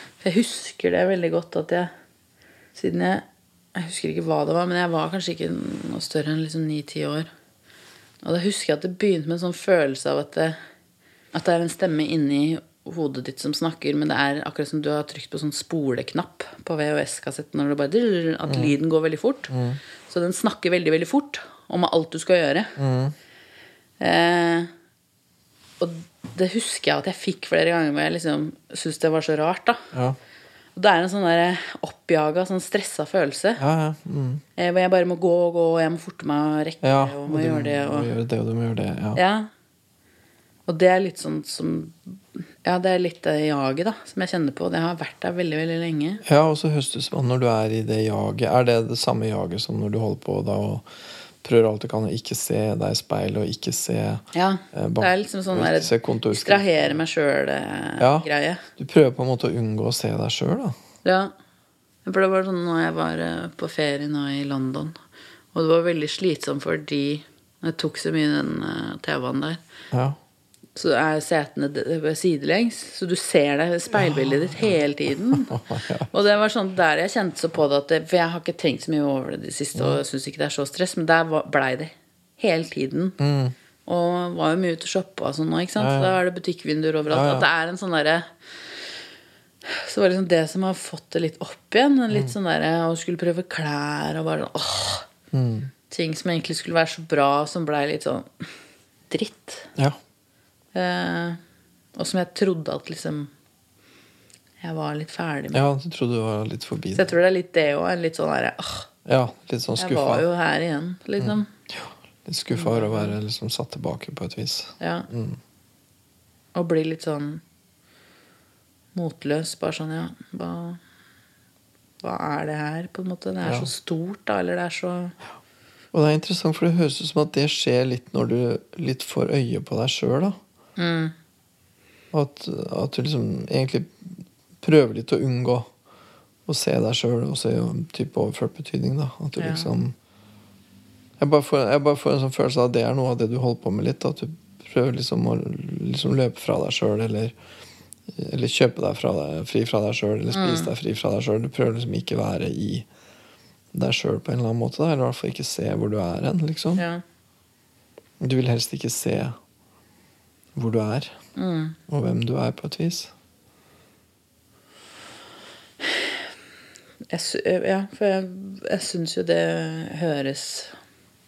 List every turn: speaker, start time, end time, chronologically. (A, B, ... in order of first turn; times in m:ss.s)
0:00.2-0:01.9 A
0:02.8-0:07.3 A
0:08.2-0:10.6 A
0:11.3-0:19.5 A
0:18.5-0:18.7 B
0:19.5-0:19.8 B
0:20.1-0:22.8 A
0:22.8-0:23.2 B
0:24.0-0:24.7 A
0:25.8-0:29.8 A
0:30.8-0:33.6 A
0:33.6-0:34.4 B
0:34.6-0:38.1 A
0:36.8-0:39.2 B
0:39.2-0:39.5 A
0:40.7-0:46.2 A
0:46.2-0:50.9 B
0:51.4-0:56.7 B
0:54.3-0:58.6 A
0:58.0-1:00.8 B
1:01.0-1:01.3 A
1:02.1-1:05.0 A
1:05.5-1:09.6 A
1:09.9-1:10.2 B
1:10.8-1:15.5 A
1:13.9-1:14.8 B
1:15.3-1:16.1 B
1:16.1-1:23.2 A
1:19.8-1:20.0 B
1:23.2-1:23.6 B
1:23.9-1:28.3 A
1:25.8-1:26.2 B
1:27.1-1:27.5 B
1:29.7-1:35.1 A
1:35.3-1:35.7 B
1:35.9-1:38.5 A
1:39.1-1:39.7 A
1:40.7-1:41.4 A
1:42.0-1:43.3 A
1:44.6-1:45.6 A
1:45.5-1:47.1 B
1:47.0-1:48.9 A
1:49.1-1:50.2 B
1:49.8-1:51.5 A
1:51.2-1:55.4 B
1:52.5-1:53.2 A
1:54.8-1:55.1 A
1:56.6-1:57.4 A
1:59.0-2:00.8 A
2:02.0-2:05.1 A
2:03.4-2:03.7 B
2:05.9-2:10.4 B
2:10.8-2:11.1 A
2:12.1-2:15.7 B
2:16.5-2:20.0 B
2:19.4-2:19.7 A
2:21.2-2:27.3 B
2:28.1-2:32.9 B
2:30.3-2:30.7 A
2:33.7-2:36.8 B
2:36.8-2:37.0 A
2:38.2-2:39.4 B
2:40.6-2:41.1 B
2:41.4-2:41.8 A
2:41.9-2:43.1 B
2:47.1-2:50.8 A